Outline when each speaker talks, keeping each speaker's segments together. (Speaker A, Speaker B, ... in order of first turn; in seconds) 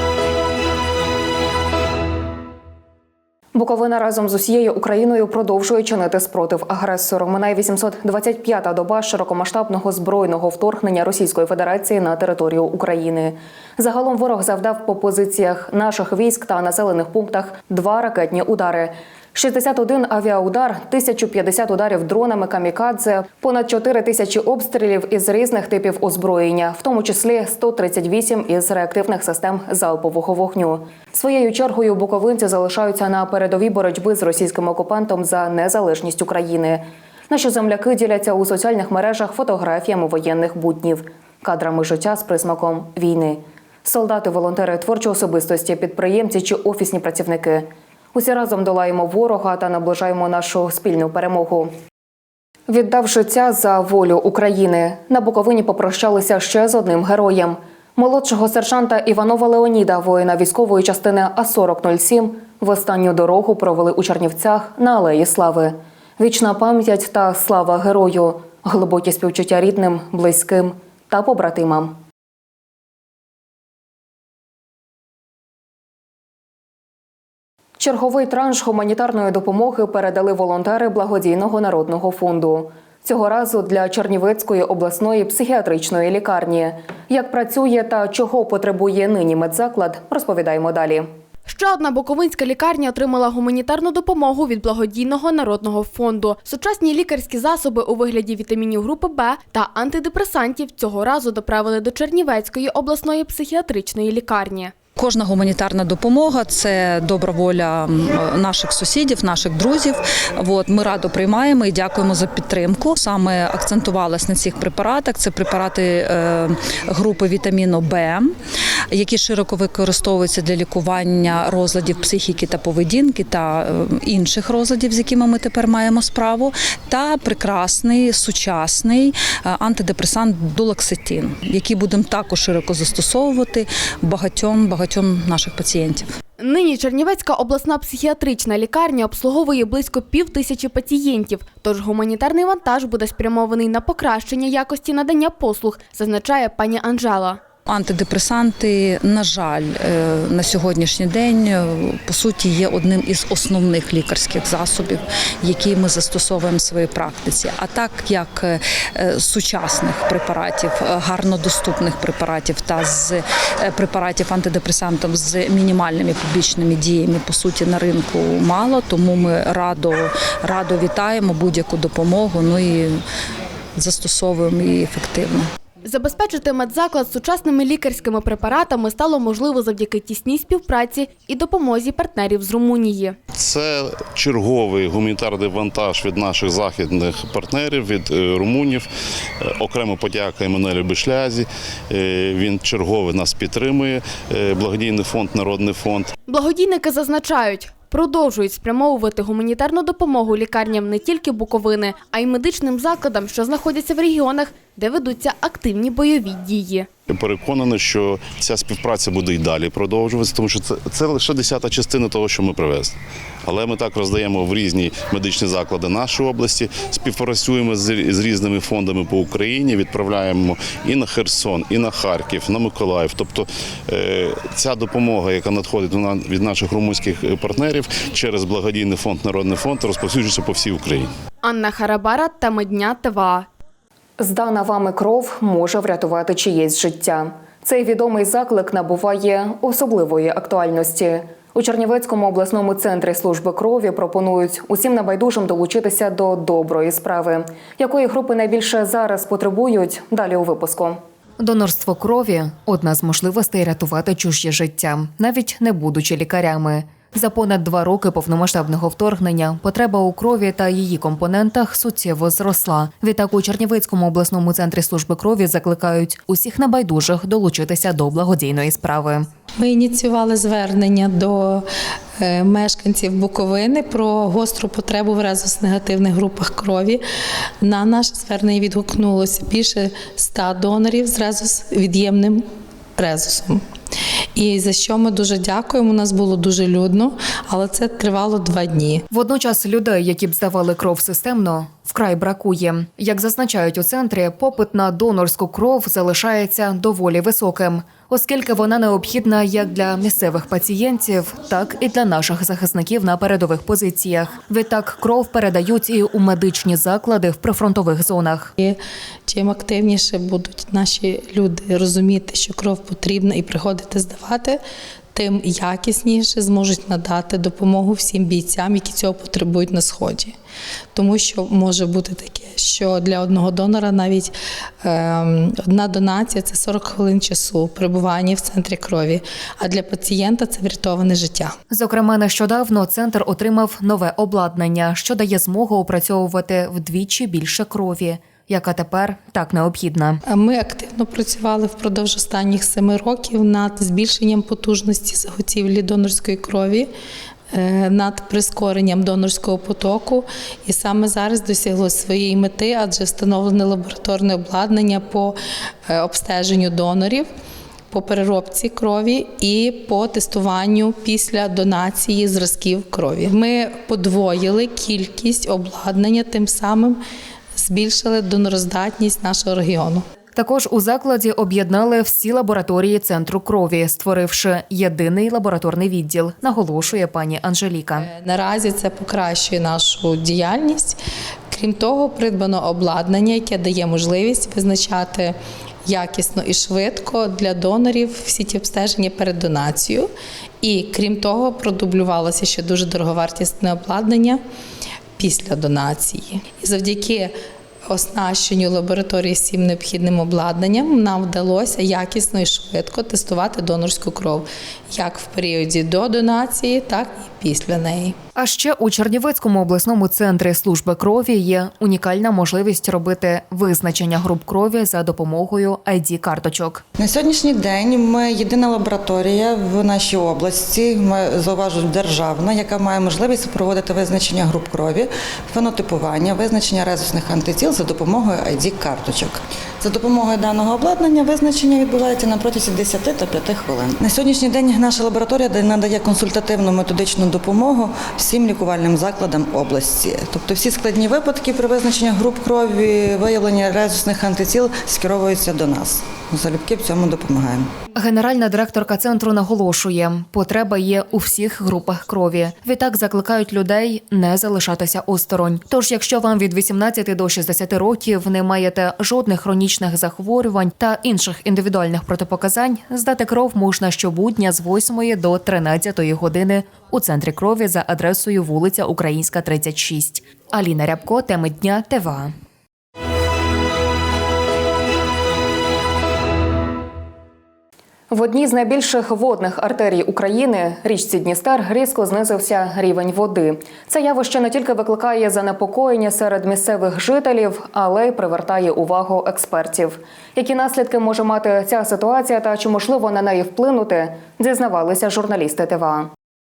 Speaker A: 3.5-51.7, 52.7-72.0, 77.8-91.1, 234.2-269.3, 289.1-308.5, 331.7-340.2, 370.3-378.1, 408.4-416.8, 447.9-472.3, 478.1-496.1
Speaker B: 91.5-104.8, 136.4-147.4, 175.8-183.2, 196.3-206.9, 231.4-233.5
Speaker C: 105.0-118.3, 118.9-136.1, 147.7-173.0, 173.8-175.5
Speaker D: 183.4-188.8, 189.4-196.1, 207.1-212.9, 213.4-231.1
Speaker E: 269.6-271.6, 272.2-277.0, 277.6-282.4, 283.0-283.6, 284.3-289.1, 308.6-314.6, 315.1-320.3, 320.9-331.5, 340.3-346.9, 347.5-355.4, 355.9-357.3, 357.9-367.0, 367.6-370.0, 378.0-381.0, 381.5-385.3, 385.9-390.1, 390.6-394.4, 395.1-397.3, 397.9-408.1
Speaker F: 417.0-447.7